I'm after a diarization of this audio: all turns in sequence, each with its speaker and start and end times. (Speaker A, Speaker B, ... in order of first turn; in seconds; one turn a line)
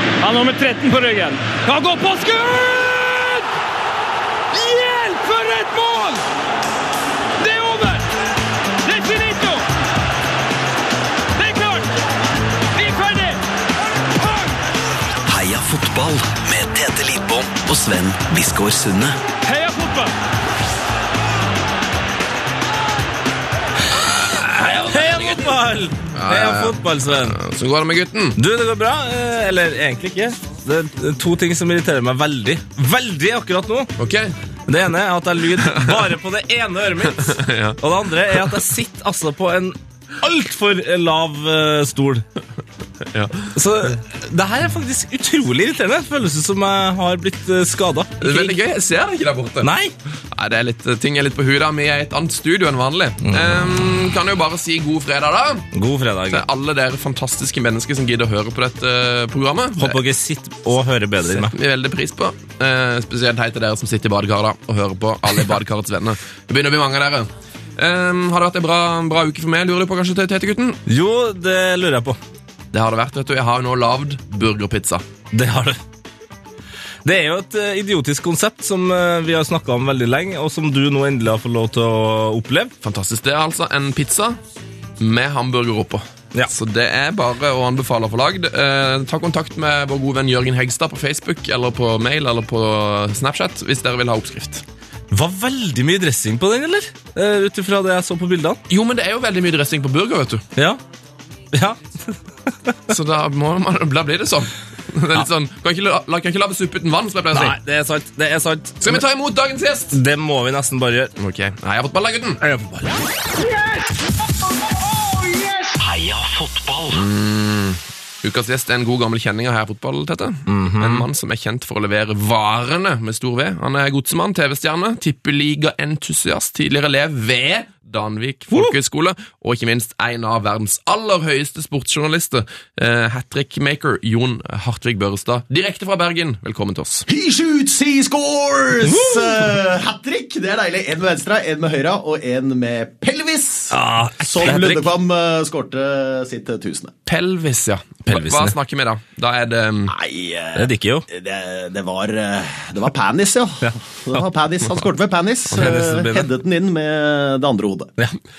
Speaker A: 0.2-3.5
Speaker A: 4.5-6.2
Speaker A: 7.4-8.1
Speaker A: 8.8-9.6
Speaker A: 11.4-11.9
Speaker A: 12.8-13.4
Speaker A: 14.2-14.5
Speaker B: 15.3-19.2
Speaker A: 19.4-20.1
Speaker C: 24.0-27.4
Speaker D: 24.3-25.5
Speaker D: 26.1-28.4
Speaker C: 28.4-33.9
Speaker D: 34.0-34.4
Speaker C: 34.7-42.2
Speaker D: 35.6-36.1
Speaker D: 37.1-37.8
Speaker D: 43.1-43.5
Speaker C: 43.5-48.6
Speaker D: 48.2-49.7
Speaker C: 49.6-49.9
Speaker D: 50.3-55.7
Speaker C: 53.2-53.6
Speaker C: 55.7-56.5
Speaker D: 56.3-60.0
Speaker C: 59.8-61.5
Speaker D: 61.3-70.8
Speaker C: 70.9-72.2
Speaker D: 72.7-75.0
Speaker C: 75.3-75.8
Speaker C: 77.0-82.7
Speaker D: 82.8-84.4
Speaker D: 85.0-94.6
Speaker C: 95.1-98.6
Speaker D: 98.7-100.5
Speaker C: 101.5-102.8
Speaker D: 102.9-107.6
Speaker C: 107.3-109.0
Speaker D: 108.8-110.0
Speaker C: 109.9-111.1
Speaker D: 111.2-112.4
Speaker C: 112.4-113.0
Speaker B: 115.8-117.1
Speaker D: 116.9-137.1
Speaker C: 120.5-121.1
Speaker E: 137.1-146.9
Speaker C: 138.8-139.5
Speaker C: 143.7-144.9
Speaker D: 147.1-149.9
Speaker C: 148.1-148.6
Speaker E: 149.9-157.9
Speaker C: 150.6-151.1
Speaker C: 153.6-154.2
Speaker C: 155.5-156.3